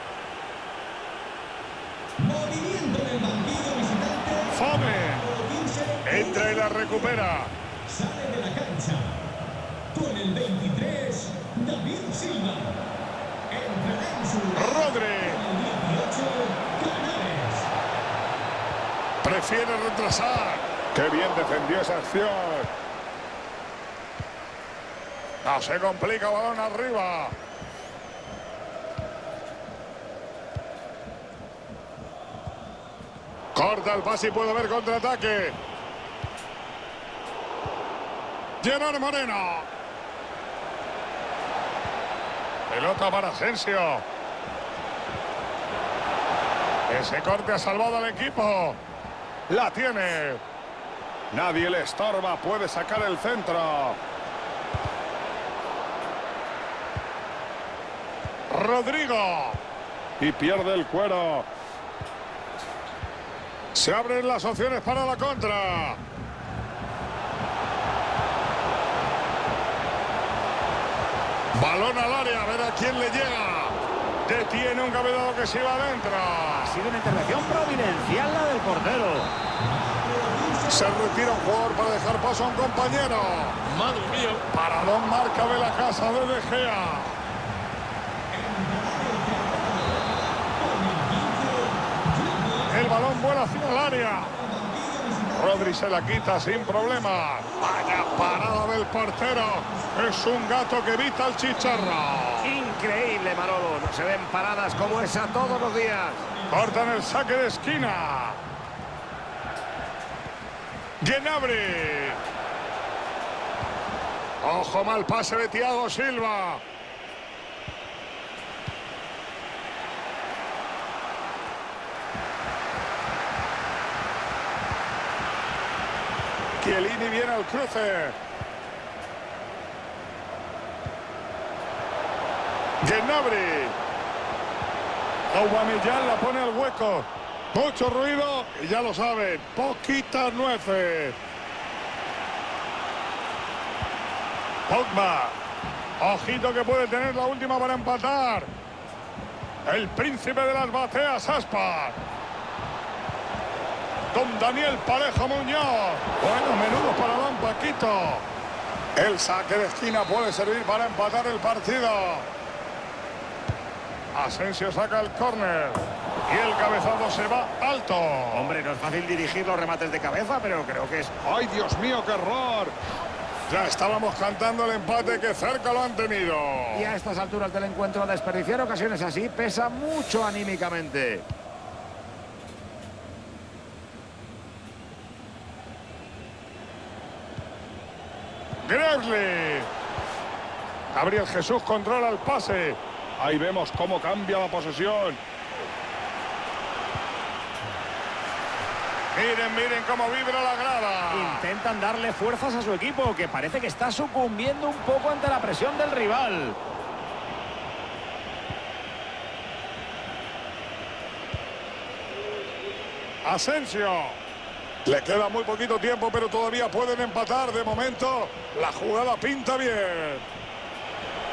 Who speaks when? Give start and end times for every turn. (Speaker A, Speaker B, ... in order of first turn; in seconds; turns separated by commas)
Speaker A: 2.2-7.2, Speaker B: 4.5-5.2, Speaker B: 6.0-7.5, Speaker A: 7.9-9.2, Speaker A: 9.9-12.8, Speaker A: 13.5-17.7, Speaker B: 14.5-15.4, Speaker B: 19.2-22.7, Speaker B: 25.4-27.3, Speaker B: 33.5-35.6, Speaker B: 38.6-39.7, Speaker B: 42.7-44.0, Speaker B: 46.9-48.8, Speaker B: 49.5-50.4, Speaker B: 51.3-54.0, Speaker B: 58.5-59.6, Speaker B: 60.2-61.5, Speaker B: 63.8-66.0, Speaker B: 71.6-76.8, Speaker C: 76.5-79.3, Speaker A: 77.1-78.0, Speaker A: 79.6-81.5, Speaker B: 80.7-87.2, Speaker A: 83.8-84.2, Speaker A: 88.3-93.0, Speaker B: 92.7-94.3, Speaker A: 94.0-98.6, Speaker B: 95.3-102.5, Speaker A: 99.5-100.0, Speaker C: 102.4-106.2, Speaker A: 104.7-107.1, Speaker B: 106.5-108.4, Speaker B: 111.0-112.2, Speaker B: 114.4-116.6, Speaker B: 126.6-128.1, Speaker B: 132.8-133.8, Speaker B: 135.3-141.2, Speaker B: 144.7-145.4, Speaker B: 146.0-148.5, Speaker B: 149.7-152.0, Speaker B: 154.1-158.2, Speaker B: 158.9-162.3, Speaker B: 164.1-168.6, Speaker C: 168.3-171.1, Speaker B: 171.2-172.7, Speaker B: 173.5-176.9, Speaker C: 176.7-181.2, Speaker B: 188.6-189.7, Speaker B: 190.9-195.2, Speaker B: 199.1-201.4, Speaker C: 201.1-206.6, Speaker B: 213.2-214.2, Speaker B: 214.8-220.2